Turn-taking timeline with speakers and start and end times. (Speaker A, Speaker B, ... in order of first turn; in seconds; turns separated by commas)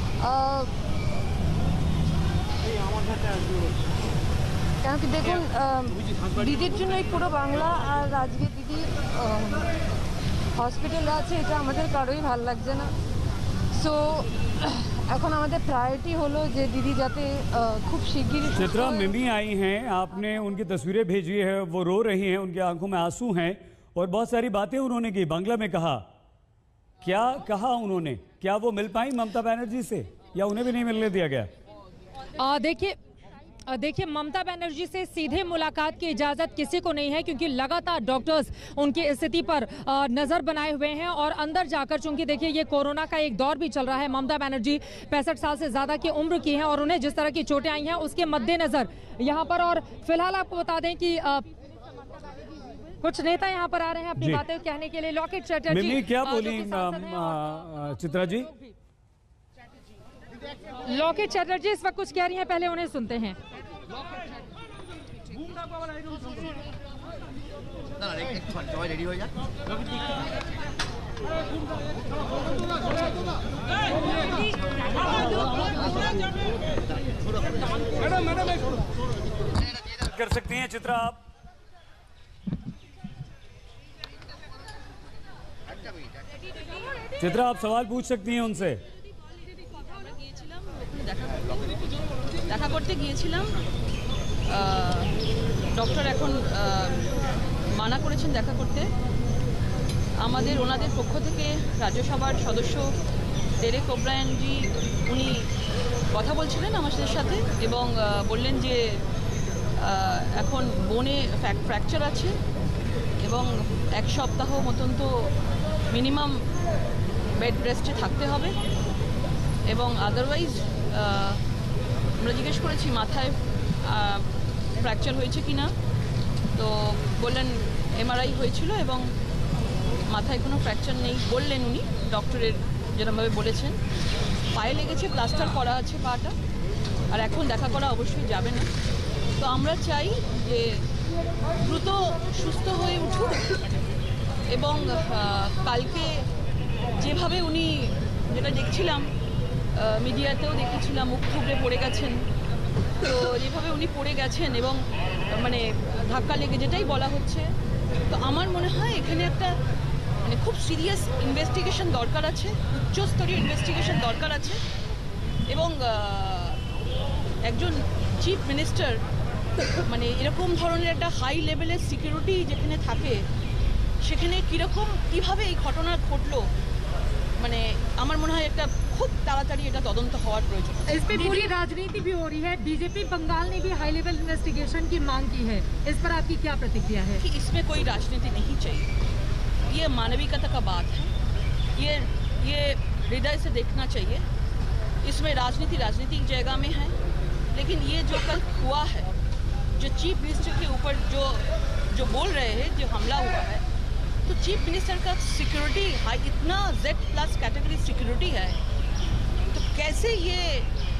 Speaker A: 0.2-0.7, Speaker A: 4.8-9.7, Speaker A: 10.6-12.9, Speaker A: 13.7-19.3, Speaker B: 18.5-26.1, Speaker B: 27.0-31.5, Speaker C: 32.4-33.0, Speaker C: 33.7-51.5, Speaker C: 53.0-57.8, Speaker B: 54.2-54.4, Speaker B: 55.7-58.5, Speaker C: 58.5-58.7, Speaker C: 60.9-63.4, Speaker B: 80.0-81.2, Speaker B: 87.2-88.8, Speaker D: 89.6-91.9, Speaker D: 92.5-93.6, Speaker D: 94.5-95.1, Speaker D: 95.7-98.9, Speaker D: 100.2-102.9, Speaker D: 103.6-105.5, Speaker D: 106.1-109.0, Speaker D: 109.8-112.4, Speaker D: 113.2-115.3, Speaker D: 115.9-116.5, Speaker D: 117.3-118.6, Speaker D: 119.7-121.4, Speaker D: 122.2-125.7, Speaker D: 126.5-129.1, Speaker D: 130.1-133.8, Speaker D: 134.5-136.3, Speaker D: 137.1-138.7, Speaker D: 139.4-140.9, Speaker D: 141.6-143.6, Speaker D: 144.5-146.3, Speaker D: 147.0-149.1, Speaker D: 149.7-152.2, Speaker D: 153.0-157.5, Speaker D: 158.1-159.6, Speaker D: 160.2-164.6, Speaker D: 165.5-166.6, Speaker D: 167.4-169.0, Speaker D: 169.8-173.3, Speaker D: 174.0-176.5, Speaker D: 177.4-181.3, Speaker C: 180.9-187.2, Speaker D: 187.2-188.9, Speaker D: 189.6-191.1, Speaker D: 191.7-194.2, Speaker D: 195.0-196.9, Speaker D: 197.5-199.1, Speaker D: 199.8-203.6, Speaker D: 204.2-208.6, Speaker D: 209.5-210.7